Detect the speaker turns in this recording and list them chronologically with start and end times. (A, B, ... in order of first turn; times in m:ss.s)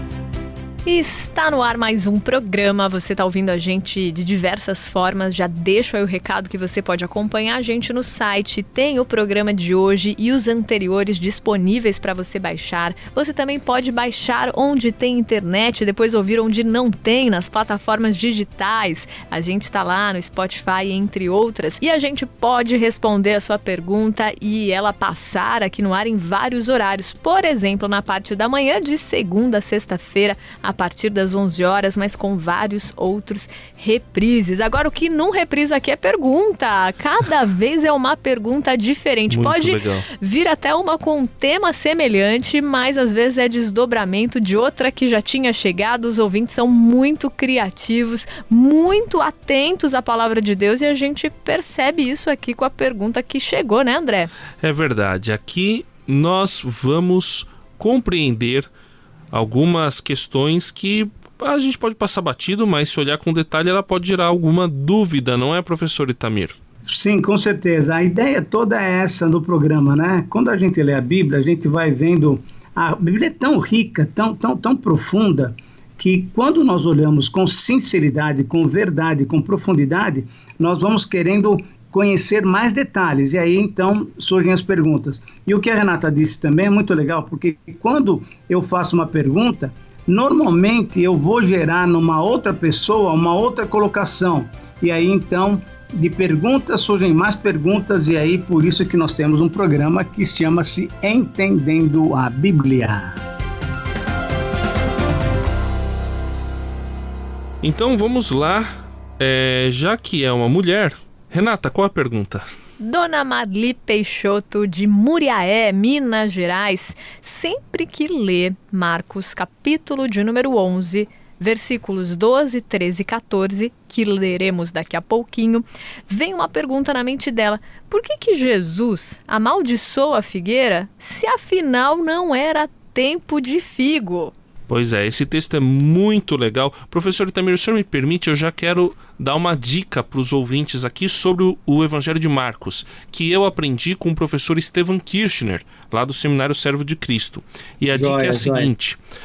0:00.8-0:54.3 A
0:39.3-0:40.1 B
0:54.6-0:58.7 B
0:59.3-1:06.6 B
1:06.9-1:43.2 C
1:47.6-1:52.4 B
1:52.8-2:14.3 A
2:14.7-2:29.0 B
2:27.9-2:28.7 C